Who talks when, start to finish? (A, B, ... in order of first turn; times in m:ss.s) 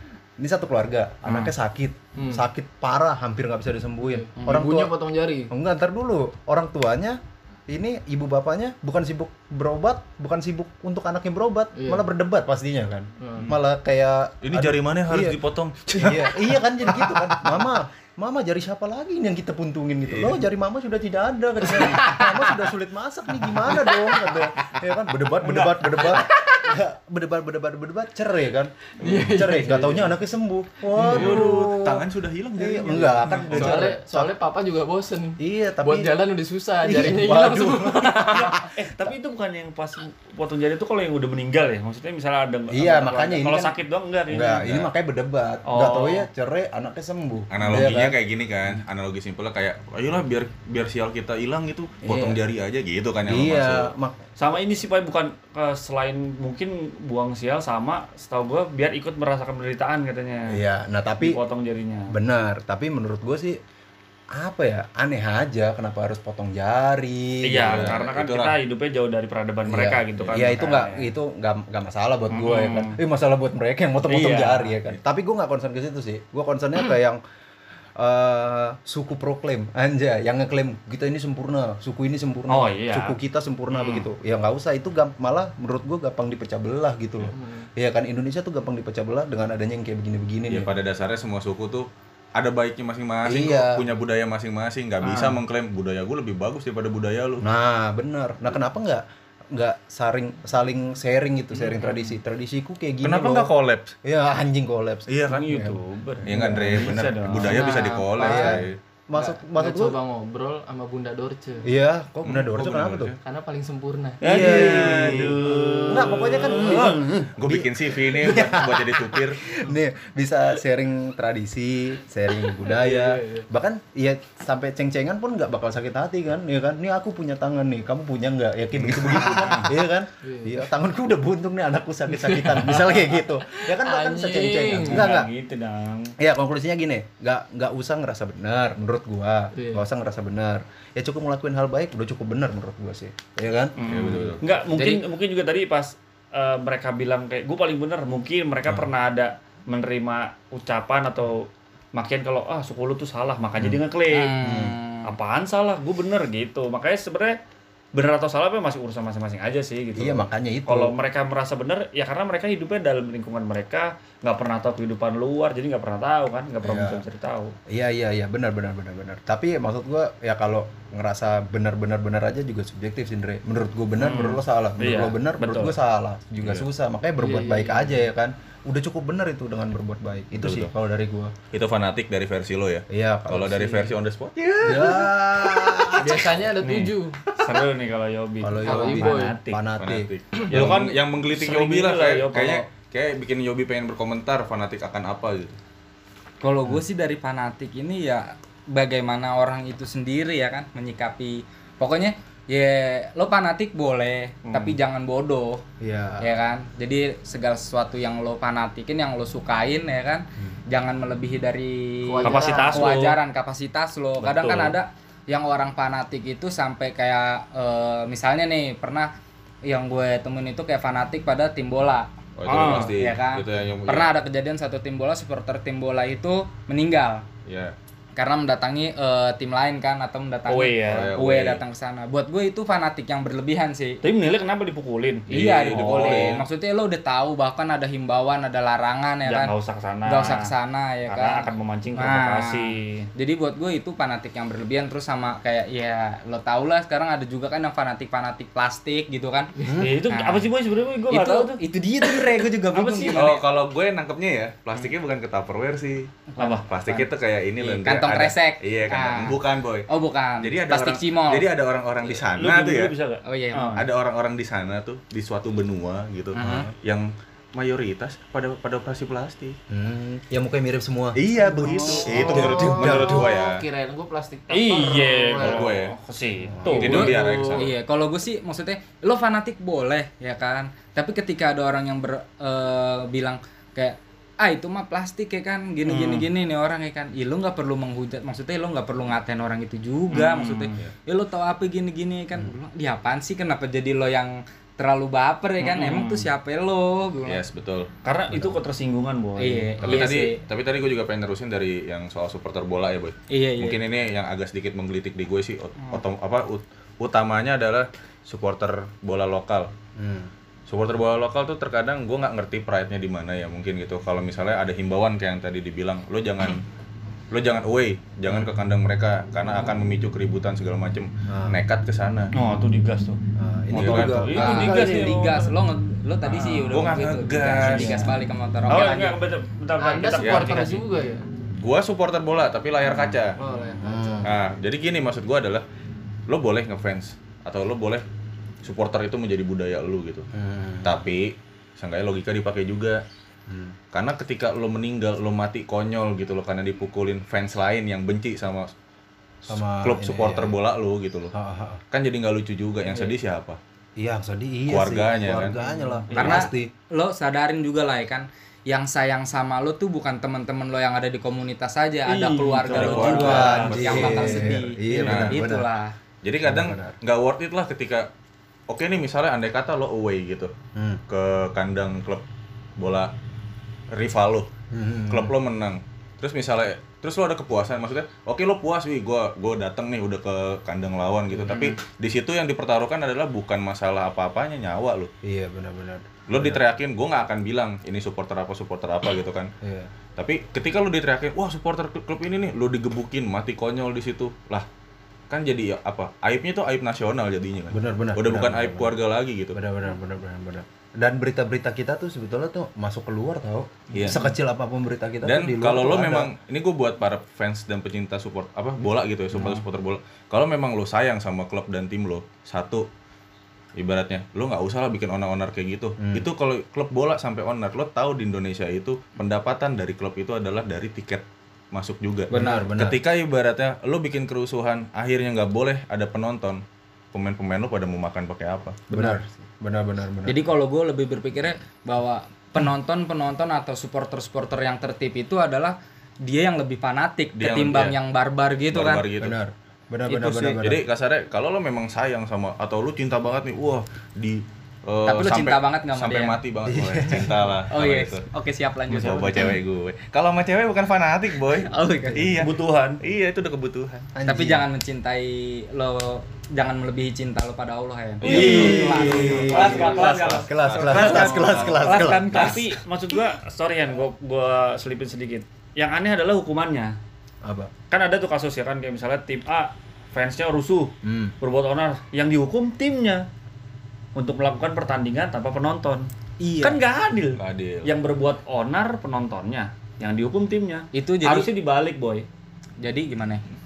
0:00.4-0:04.9 A
0:01.2-0:01.5 B
0:02.2-0:02.4 C
0:04.0-0:05.5 C
0:05.5-0:15.4 A
0:11.8-0:12.0 C
0:13.2-0:13.5 C
0:14.4-0:17.1 D
0:16.0-0:32.0 A
0:20.1-0:20.4 D
0:21.9-0:22.4 C
0:23.8-0:24.4 C
0:25.4-0:26.2 B
0:26.2-0:26.6 C
0:29.0-0:30.1 C
0:31.0-0:33.9 D
0:31.0-0:31.6 C
0:32.6-0:34.3 A
0:33.5-0:38.7 C
0:35.4-0:36.1 A
0:36.8-0:38.7 A
0:38.4-0:44.8 B
0:42.7-0:43.8 A
0:44.3-0:48.2 A
0:45.6-0:46.3 B
0:47.5-0:53.9 D
0:52.0-0:52.4 A
0:53.3-0:54.2 A
0:54.4-1:00.6 B
1:00.5-1:01.4 A
1:01.2-1:02.1 B
1:02.1-1:03.6 A
1:04.4-1:08.0 A
1:07.4-1:11.1 B
1:07.6-1:08.6 D
1:09.7-1:17.2 A
1:12.3-1:13.0 B
1:14.1-1:14.8 B
1:18.0-1:30.7 A
1:22.5-1:23.2 B
1:23.7-1:24.1 B
1:27.3-1:27.7 C
1:30.5-1:37.4 D
1:33.2-1:33.8 A
1:35.0-1:35.4 B
1:37.4-1:43.5 A
1:41.6-1:42.2 B
1:43.0-1:43.9 D
1:44.0-1:45.8 A
1:45.1-1:45.6 D
1:45.3-1:47.7 B
1:46.2-1:48.8 D
1:46.3-1:47.0 A
1:47.6-1:48.1 E
1:47.6-1:48.6 C
1:48.2-1:50.0 A
1:49.1-1:51.7 C
1:51.6-1:53.1 A
1:52.2-1:53.2 D
1:53.2-1:57.0 C
1:54.2-1:57.3 B
1:54.2-2:15.3 A
1:57.4-1:59.4 D
2:02.5-2:03.4 C
2:08.8-2:09.2 D
2:09.2-2:09.7 B
2:10.2-2:10.6 C
2:12.1-2:15.1 C
2:14.8-2:16.1 B
2:16.2-2:24.4 A
2:19.5-2:19.8 C
2:23.8-2:34.4 B
2:23.9-2:24.4 D
2:34.1-2:35.1 E
2:34.4-2:34.8 A
2:35.0-2:37.4 B
2:37.9-2:47.6 B
2:40.0-2:40.9 A
2:46.6-2:47.0 A
2:47.7-3:01.3 A
2:54.0-2:55.8 B
2:57.2-2:57.9 C
3:00.4-3:00.7 D
3:01.5-3:06.2 D
3:02.9-3:03.9 A
3:04.6-3:06.4 A
3:06.0-3:07.2 C
3:06.6-3:09.6 B
3:08.4-3:10.8 A
3:08.6-3:09.4 C
3:09.8-3:15.6 D
3:10.5-3:12.6 B
3:16.4-3:25.6 E
3:24.4-3:24.8 B
3:25.8-3:26.3 A
3:26.2-3:39.1 E
3:32.0-3:33.0 C
3:32.2-3:33.2 B
3:34.2-3:34.7 B
3:39.6-3:47.2 E
3:42.4-3:44.1 D
3:42.5-3:42.9 B
3:47.5-3:47.7 D
3:48.2-3:54.0 E
3:50.5-3:51.1 B
3:50.8-3:51.6 D
3:54.0-3:56.4 B
3:55.3-3:56.5 D
3:55.3-3:59.5 E
3:59.2-4:00.5 B
4:00.1-4:02.6 E
4:01.1-4:03.0 B
4:03.2-4:09.5 E
4:09.6-4:10.0 A
4:09.8-4:11.6 B
4:10.1-4:10.5 E
4:11.1-4:13.3 E
4:12.0-4:13.2 A
4:12.7-4:13.4 B
4:13.1-4:19.9 D
4:16.4-4:17.1 E
4:16.4-4:16.6 B
4:17.6-4:21.5 E
4:20.4-4:23.0 D
4:22.0-4:23.8 B
4:23.2-4:23.8 E
4:23.8-4:29.6 D
4:26.4-4:26.7 E
4:26.4-4:26.7 A
4:29.7-4:33.3 A
4:31.1-4:33.6 D
4:31.4-4:35.8 C
4:34.5-4:37.6 B
4:35.4-4:36.0 D
4:36.5-4:37.0 A
4:36.7-4:37.7 D
4:36.8-4:57.4 E
4:45.8-4:46.2 B
4:50.1-4:50.8 B
4:55.6-4:56.3 B
4:57.2-4:57.9 D
4:58.0-4:59.8 B
4:58.3-4:58.6 A
4:59.4-5:00.4 E
4:59.8-5:09.7 D
5:03.3-5:03.8 E
5:10.0-5:10.3 A
5:10.7-5:16.6 D
5:17.3-5:22.3 D
5:21.3-5:21.6 A
5:22.3-5:23.2 B
5:23.4-5:25.2 A
5:23.7-5:24.3 D
5:23.7-5:25.5 B
5:24.3-5:29.2 E
5:26.3-5:27.0 B
5:26.7-5:28.0 D
5:27.6-5:28.1 A
5:28.7-5:30.9 B
5:29.8-5:31.2 C
5:30.2-5:30.5 D
5:31.6-5:33.4 D
5:33.4-5:34.3 C
5:33.4-5:34.3 A
5:34.2-5:35.6 D
5:36.3-5:38.0 D
5:38.6-5:40.3 D
5:40.3-5:41.0 A
5:40.8-5:43.0 D
5:43.5-5:43.8 A
5:43.9-5:48.7 D
5:49.5-5:51.3 D
5:49.5-5:50.6 A
5:51.3-5:51.8 A
5:51.9-5:53.6 D
5:54.0-5:56.7 A
5:54.7-5:55.6 D
5:55.6-5:56.5 B
5:56.1-5:56.4 D
5:56.1-6:05.9 E
6:02.1-6:04.1 B
6:02.7-6:04.5 D
6:02.8-6:05.6 A
6:05.0-6:05.4 D
6:06.2-6:08.1 D
6:06.4-6:07.0 A
6:08.7-6:10.5 D
6:10.8-6:11.0 A
6:11.1-6:12.2 D
6:12.8-6:13.1 D
6:13.9-6:14.5 D
6:14.7-6:15.3 A
6:15.1-6:25.1 D
6:21.5-6:21.8 E
6:25.2-6:26.6 A
6:26.3-6:29.5 D
6:29.6-6:29.9 A
6:30.2-6:34.6 D
6:35.3-6:39.6 D
6:37.7-6:39.0 A
6:39.5-6:46.3 A
6:43.9-6:44.2 D
6:45.2-6:52.9 D
6:53.8-7:06.6 D
6:56.0-6:56.2 A
7:02.3-7:03.0 A
7:02.3-7:02.6 E
7:07.1-7:08.8 D
7:08.9-7:10.4 A
7:10.2-7:19.1 E
7:17.4-7:18.0 D
7:18.7-7:19.4 D
7:19.2-7:20.8 A
7:20.1-7:28.2 D
7:20.1-7:20.5 E
7:25.0-7:26.4 E
7:26.6-7:27.4 A
7:27.7-7:29.6 E
7:28.9-7:34.1 D
7:31.7-7:32.4 E
7:32.4-7:33.0 B
7:34.1-7:34.7 A
7:34.2-7:41.8 E
7:38.2-7:46.9 B
7:38.2-7:42.6 D
7:38.2-7:42.6 A
7:47.4-7:47.7 A
7:47.9-7:53.2 B
7:51.0-7:51.4 A
7:54.1-7:56.1 B
7:56.4-7:56.8 E
7:56.6-8:02.2 B
7:57.4-7:57.9 D
8:00.9-8:01.5 E
8:02.8-8:03.4 E